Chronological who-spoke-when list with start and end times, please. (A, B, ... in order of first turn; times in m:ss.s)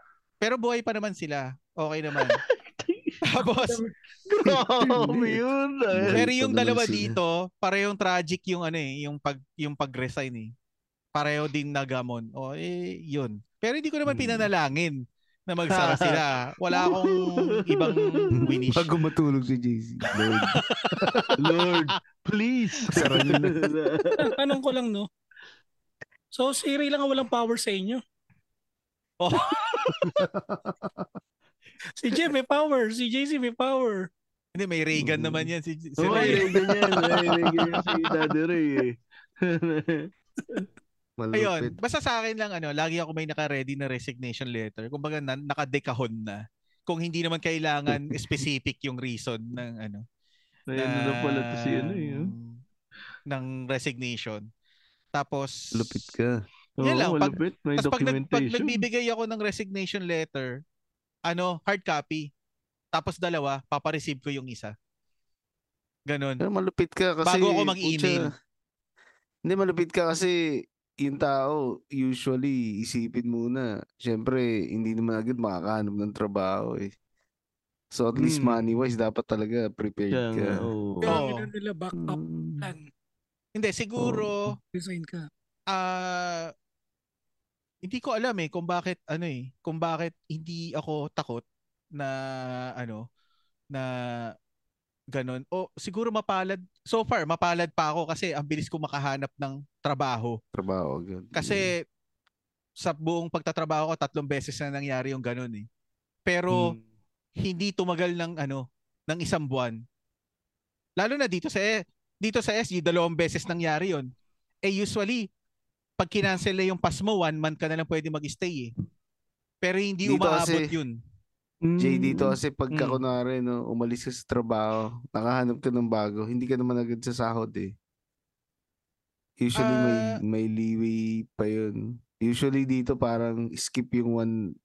0:00.4-0:02.4 A
0:02.2-0:03.2 B
0:03.2-0:03.8 A
0:04.2-0:06.2 B
0:04.8-0:07.2 C
0:06.1-0:10.5 A
0:11.2-0:18.9 A
0:14.1-0:14.5 B
0:15.7-0:18.4 B
0:18.4-0:21.3 C
0:20.2-0:21.4 A
0:21.4-0:24.3 B
0:22.9-0:23.7 C
0:24.2-0:25.1 D
0:26.3-0:28.0 D
0:29.2-0:30.1 A
0:30.0-0:31.1 C
0:32.0-0:34.1 D
0:34.6-0:36.5 A
0:35.0-0:35.5 C
0:36.0-0:38.9 B
0:36.1-0:38.3 C
0:39.5-0:40.7 B
0:41.2-0:41.8 C
0:41.3-0:50.0 A
0:47.9-0:48.3 C
0:50.7-0:52.3 B
0:50.8-0:52.6 A
0:53.3-0:54.4 A
0:55.1-0:56.1 A
0:55.7-0:56.4 C
0:56.8-0:58.8 B
0:56.8-1:00.5 A
1:01.3-1:02.3 A
1:02.9-1:04.7 A
1:06.1-1:06.4 A
1:06.4-1:08.3 C
1:07.2-1:08.3 A
1:09.5-1:10.4 C
1:11.0-1:16.9 C
1:17.9-1:20.7 C
1:18.2-1:18.6 B
1:20.1-1:21.2 B
1:21.0-1:22.9 D
1:21.1-1:21.5 A
1:22.0-1:22.8 C
1:23.6-1:24.6 A
1:24.0-1:24.4 C
1:24.7-1:25.3 D
1:25.7-1:26.5 A
1:27.8-1:31.4 A
1:32.8-1:33.0 A
1:35.1-1:40.4 A
1:40.5-1:41.7 C
1:41.3-1:41.8 A
1:42.8-1:45.7 A
1:46.3-1:46.8 A
1:47.4-1:49.8 A
1:51.0-1:54.1 A
1:54.6-1:55.3 A
1:56.0-1:58.7 A
1:59.6-2:01.0 A
2:00.0-2:00.7 C
2:01.6-2:03.0 B
2:01.8-2:07.7 C
2:09.4-2:14.3 C
2:09.6-2:10.2 A